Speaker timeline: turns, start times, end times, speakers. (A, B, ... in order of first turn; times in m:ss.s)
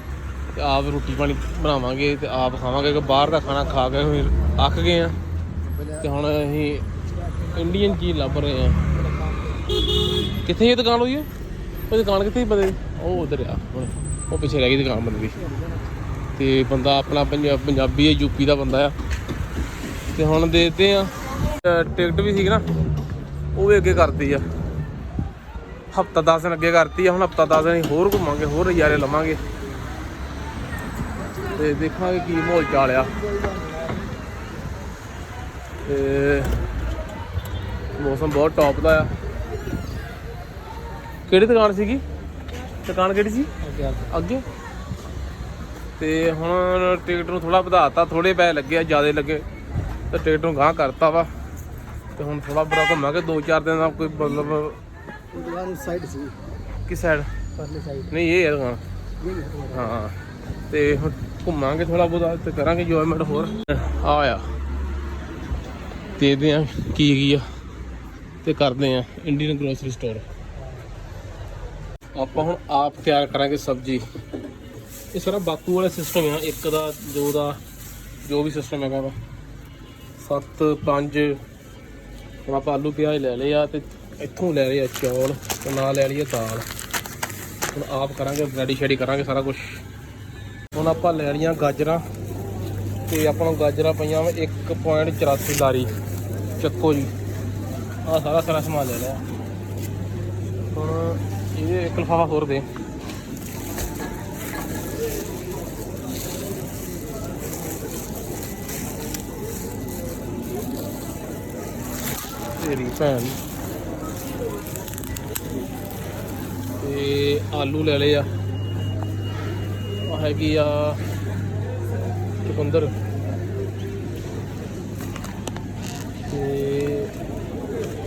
0:00.5-0:05.2 A
0:05.7-0:06.0 B
0:06.0-0:06.9 A
0:07.5-0:08.9 A
0:09.1-0:09.5 B
0:10.4-0:11.3 A
0:11.9-0:15.4 A
0:16.4-0:19.0 A
0:20.1-0:22.7 A
0:23.6-0:24.4 A
0:25.9-0:29.4 A
0:31.5-0:33.1 A
0:35.8-0:36.6 A
0:38.0-0:39.1 A
0:41.3-0:42.0 A
0:42.8-0:44.4 A
0:46.0-0:49.4 A
0:50.1-0:51.3 A
0:52.2-0:54.8 A
0:55.3-0:56.4 B
0:56.9-0:57.3 A
0:57.6-0:58.1 B
0:58.1-0:58.8 A
0:59.2-0:59.9 B
0:59.7-1:00.2 A
1:00.7-1:04.5 A
1:06.2-1:07.5 A
1:08.4-1:10.3 A
1:12.2-1:14.1 A
1:15.1-1:17.6 A
1:18.2-1:19.2 A
1:20.2-1:21.4 A
1:22.5-1:26.7 A
1:27.7-1:29.8 A
1:30.7-1:32.0 A
1:33.1-1:35.9 A
1:36.6-1:37.1 A
1:38.0-1:39.2 A
1:40.7-1:42.7 A
1:52.6-1:53.4 A
1:56.8-1:58.3 A
2:00.0-2:01.0 A
2:02.4-2:03.0 A
2:06.3-2:07.1 A